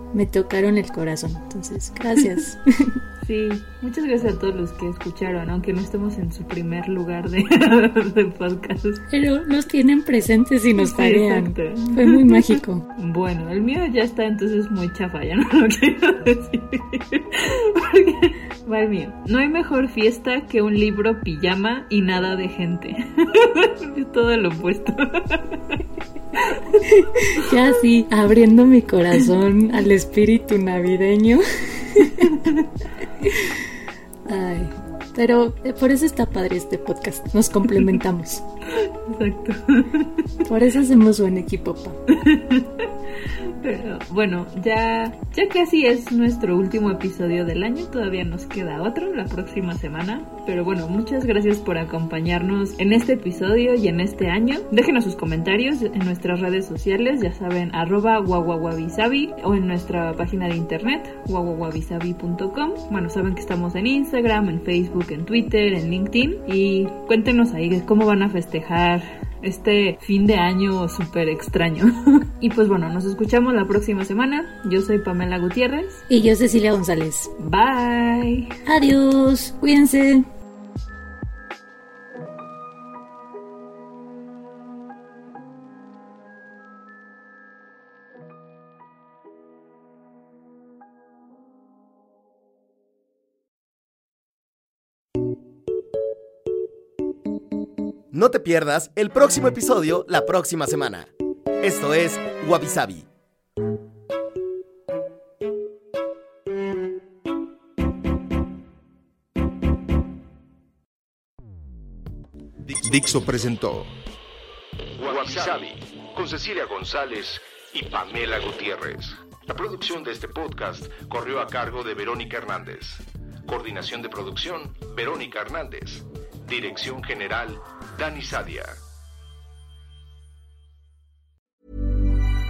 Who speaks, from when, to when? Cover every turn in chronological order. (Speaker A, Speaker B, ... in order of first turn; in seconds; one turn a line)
Speaker A: 0.1-3.0
Speaker B: 3.2-9.0
Speaker A: 9.1-12.8
Speaker B: 10.8-25.8
Speaker B: 26.4-26.6
Speaker A: 26.8-32.4
Speaker B: 32.2-32.5
Speaker A: 33.2-38.4
Speaker B: 38.7-40.3
Speaker A: 40.4-42.0
Speaker B: 42.1-42.9
Speaker B: 43.6-76.0
Speaker A: 76.1-77.3
Speaker B: 77.4-78.5
Speaker A: 78.7-80.2
Speaker C: 98.1-101.1
Speaker C: 101.6-103.0
Speaker D: 112.7-113.8
Speaker D: 115.0-128.8